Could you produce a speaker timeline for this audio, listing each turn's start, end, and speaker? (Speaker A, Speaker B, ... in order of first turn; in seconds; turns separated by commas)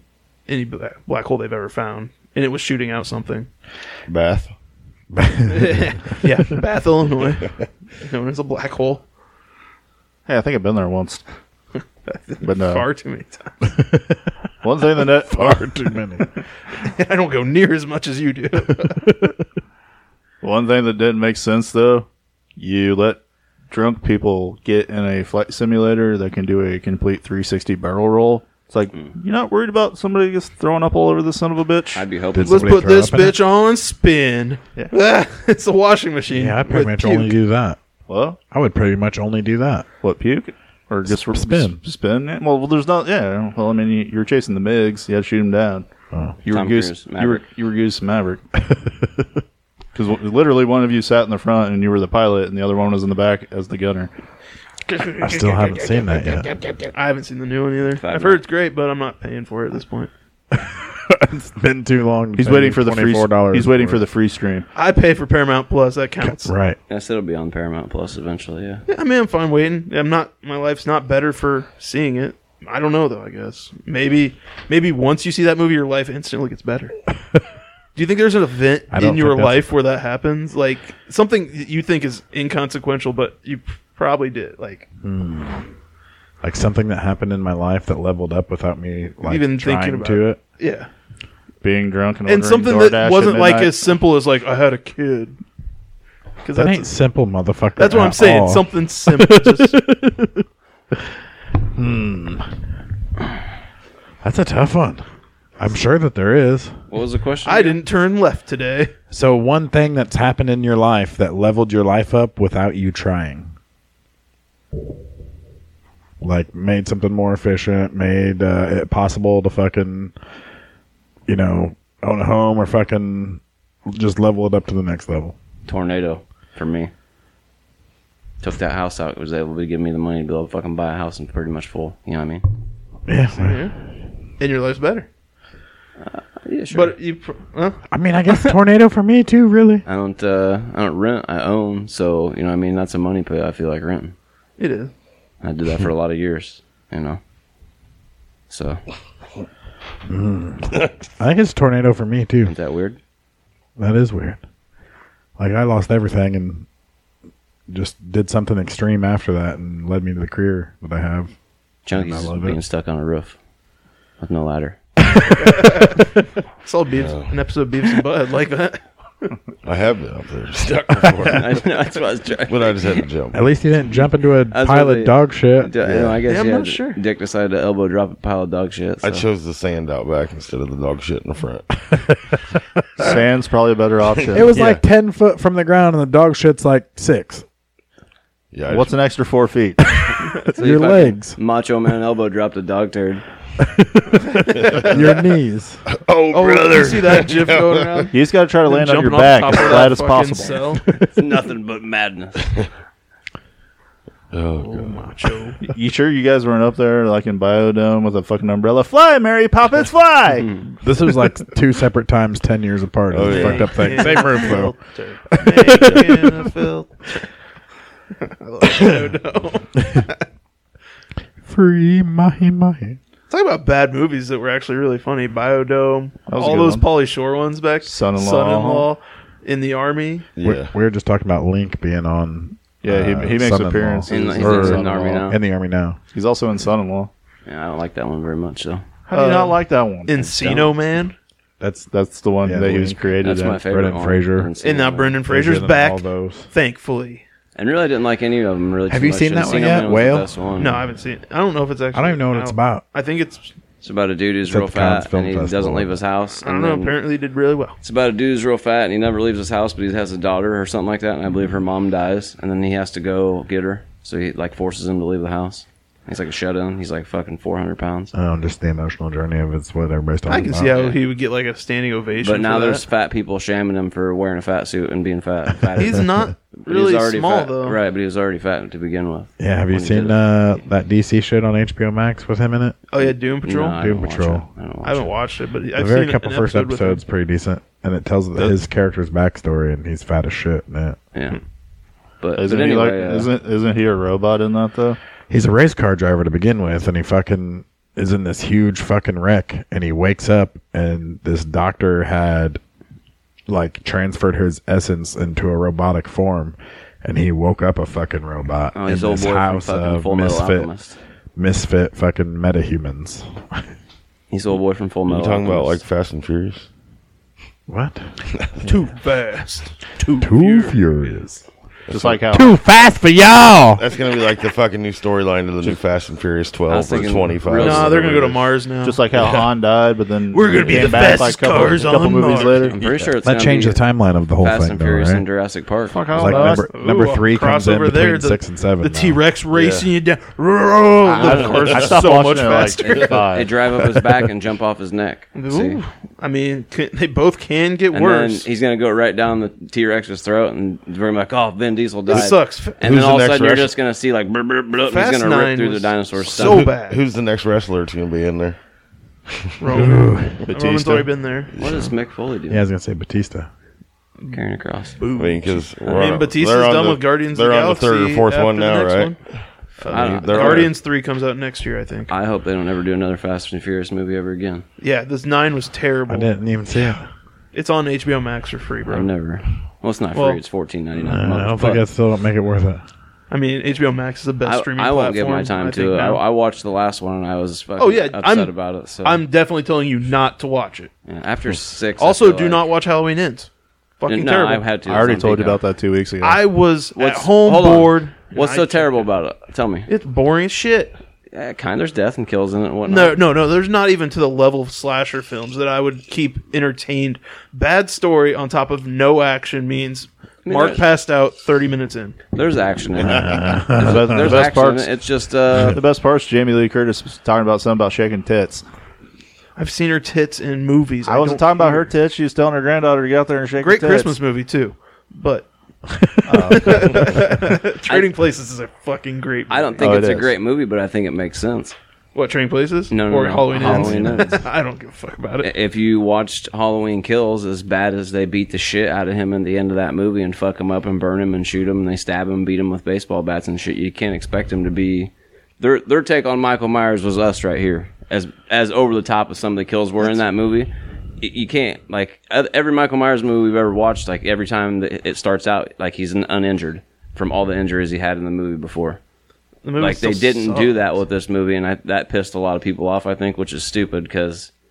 Speaker A: 0.5-3.5, Speaker B: 4.1-4.5, Speaker C: 5.1-6.0, Speaker A: 5.5-9.0, Speaker D: 10.3-11.2, Speaker A: 12.1-13.7, Speaker D: 12.4-12.9, Speaker C: 13.7-14.2, Speaker D: 14.6-15.7, Speaker C: 15.2-16.3, Speaker A: 16.8-19.2, Speaker C: 18.8-19.3, Speaker D: 20.4-32.1, Speaker E: 31.9-32.8, Speaker C: 32.3-33.4, Speaker A: 32.4-37.4, Speaker C: 36.3-37.8, Speaker D: 38.1-38.4, Speaker C: 38.5-39.9, Speaker D: 40.0-45.9, Speaker C: 41.1-41.8, Speaker D: 46.4-48.4, Speaker E: 46.5-47.4, Speaker D: 49.9-54.1, Speaker A: 54.9-60.1, Speaker C: 55.2-56.5, Speaker E: 58.0-58.4, Speaker C: 60.5-64.0, Speaker D: 62.4-64.7, Speaker A: 64.8-66.5, Speaker C: 66.2-66.8, Speaker E: 66.9-68.8, Speaker A: 68.9-76.9, Speaker A: 77.9-84.9, Speaker C: 78.9-79.7, Speaker C: 85.0-85.7, Speaker C: 86.4-90.4, Speaker A: 89.2-90.9, Speaker D: 91.6-93.8, Speaker A: 92.3-95.4, Speaker A: 96.4-96.9, Speaker C: 96.5-100.4, Speaker A: 97.8-99.9, Speaker C: 101.7-102.5, Speaker C: 104.2-105.0, Speaker C: 105.6-106.8, Speaker E: 106.9-107.8, Speaker A: 107.4-108.9, Speaker C: 109.1-113.5, Speaker C: 116.2-120.1, Speaker C: 121.3-125.4, Speaker E: 125.7-126.9, Speaker E: 128.4-132.4, Speaker C: 133.1-133.7, Speaker A: 133.3-133.7, Speaker A: 134.4-135.1, Speaker E: 136.0-136.9, Speaker A: 136.7-138.5, Speaker C: 137.9-139.8, Speaker E: 139.9-144.1, Speaker A: 144.6-144.9, Speaker E: 145.4-147.2, Speaker E: 148.5-148.8, Speaker C: 150.1-152.5, Speaker E: 152.4-153.0, Speaker C: 153.8-154.4, Speaker C: 155.4-156.7, Speaker C: 157.7-161.3, Speaker E: 161.9-163.4, Speaker C: 161.9-162.6, Speaker E: 164.2-164.8, Speaker C: 165.1-165.9, Speaker A: 165.4-169.3, Speaker B: 166.9-167.3, Speaker B: 169.6-171.6, Speaker E: 171.2-173.1, Speaker B: 172.5-173.4, Speaker C: 173.3-175.7, Speaker E: 174.5-179.3, Speaker B: 175.8-176.2, Speaker A: 176.3-177.0, Speaker B: 179.0-181.9, Speaker D: 183.0-184.6, Speaker C: 184.3-187.4, Speaker B: 188.5-188.9, Speaker D: 188.7-189.8, Speaker C: 190.0-191.4, Speaker E: 190.4-193.2, Speaker C: 193.6-195.8, Speaker B: 194.6-194.9, Speaker B: 195.9-198.1, Speaker A: 196.3-198.1, Speaker D: 198.1-200.6, Speaker A: 198.6-200.9, Speaker E: 201.0-202.6, Speaker B: 204.3-205.1, Speaker A: 204.6-205.6, Speaker D: 205.6-210.5, Speaker E: 210.4-210.6, Speaker C: 210.8-214.7, Speaker B: 213.1-214.1, Speaker A: 213.2-217.3, Speaker C: 215.3-216.5, Speaker A: 218.2-220.2, Speaker C: 221.4-223.0, Speaker A: 223.3-230.3, Speaker D: 226.3-226.9, Speaker D: 227.8-228.9, Speaker B: 230.4-230.7, Speaker C: 230.4-236.0, Speaker D: 232.8-235.3, Speaker E: 234.1-235.4, Speaker D: 236.1-237.1, Speaker E: 237.4-238.8, Speaker D: 239.1-240.2, Speaker A: 239.1-241.2, Speaker E: 240.2-240.7, Speaker C: 241.6-241.9, Speaker D: 241.9-243.6, Speaker C: 242.4-244.5, Speaker E: 243.2-245.2, Speaker A: 244.6-247.2, Speaker C: 245.3-246.5, Speaker E: 247.6-250.8, Speaker C: 248.9-250.3, Speaker A: 250.6-253.6, Speaker C: 251.9-252.8, Speaker E: 253.8-256.9, Speaker C: 254.5-255.9, Speaker A: 256.3-257.8, Speaker E: 257.8-268.1, Speaker C: 268.1-270.7, Speaker A: 270.3-272.8, Speaker E: 270.7-271.0, Speaker E: 272.2-280.2, Speaker A: 275.8-277.8, Speaker C: 279.4-282.8, Speaker A: 282.9-283.8, Speaker E: 283.0-285.1, Speaker C: 283.8-284.4, Speaker A: 284.8-287.0, Speaker C: 285.7-291.0, Speaker E: 292.2-293.3, Speaker D: 292.4-295.0, Speaker C: 295.3-302.6, Speaker C: 303.5-310.7, Speaker E: 308.7-311.0, Speaker C: 311.3-313.4, Speaker E: 314.3-315.8, Speaker B: 315.1-316.7, Speaker C: 317.7-318.1, Speaker A: 318.6-320.8, Speaker C: 320.2-321.5, Speaker B: 321.9-322.2, Speaker D: 321.9-322.6, Speaker C: 322.3-323.8, Speaker B: 323.8-328.5, Speaker E: 326.7-328.0, Speaker A: 327.5-329.5, Speaker D: 328.8-332.8, Speaker A: 330.3-332.7, Speaker E: 330.7-331.1, Speaker E: 332.3-333.8, Speaker B: 332.8-333.1, Speaker C: 333.2-335.2, Speaker E: 334.4-336.0, Speaker D: 335.9-336.7, Speaker C: 336.1-339.2, Speaker A: 336.2-343.3, Speaker B: 339.5-339.9, Speaker E: 341.1-341.9, Speaker D: 341.1-343.5, Speaker B: 341.4-341.9, Speaker E: 342.6-345.8, Speaker A: 345.3-348.4, Speaker E: 347.9-356.7, Speaker A: 352.1-352.8, Speaker B: 352.8-353.7, Speaker A: 354.9-357.0, Speaker B: 356.3-358.6, Speaker A: 359.6-361.6, Speaker C: 359.7-360.4, Speaker D: 360.5-361.1, Speaker E: 361.6-362.6, Speaker B: 361.6-361.9, Speaker C: 362.5-363.5, Speaker E: 364.3-365.0, Speaker A: 365.0-369.2, Speaker B: 365.1-370.8, Speaker E: 365.8-366.1, Speaker A: 369.8-372.1, Speaker E: 369.8-370.7, Speaker E: 372.1-374.6, Speaker A: 374.8-376.3, Speaker C: 376.1-377.1, Speaker A: 377.5-379.1, Speaker E: 378.9-381.8, Speaker A: 380.1-380.4, Speaker C: 381.0-382.8, Speaker A: 383.3-386.2, Speaker E: 384.4-389.2, Speaker A: 387.8-390.9, Speaker E: 391.1-392.6, Speaker A: 392.0-394.6, Speaker E: 394.1-395.6, Speaker D: 394.9-396.4, Speaker A: 396.2-399.0, Speaker E: 396.9-399.9, Speaker A: 399.9-400.9, Speaker E: 401.3-403.2, Speaker A: 402.8-412.2, Speaker E: 410.4-410.8, Speaker E: 412.3-415.8, Speaker C: 413.1-414.1, Speaker D: 413.7-414.9, Speaker D: 415.5-418.6, Speaker A: 419.6-421.9, Speaker D: 421.1-424.1, Speaker A: 423.6-425.5, Speaker D: 426.3-427.2, Speaker A: 426.4-430.0, Speaker E: 429.5-431.8, Speaker D: 429.8-430.3, Speaker A: 432.1-435.5, Speaker E: 432.9-434.4, Speaker C: 433.7-434.4, Speaker E: 435.4-459.0, Speaker A: 459.6-460.8, Speaker E: 459.8-464.5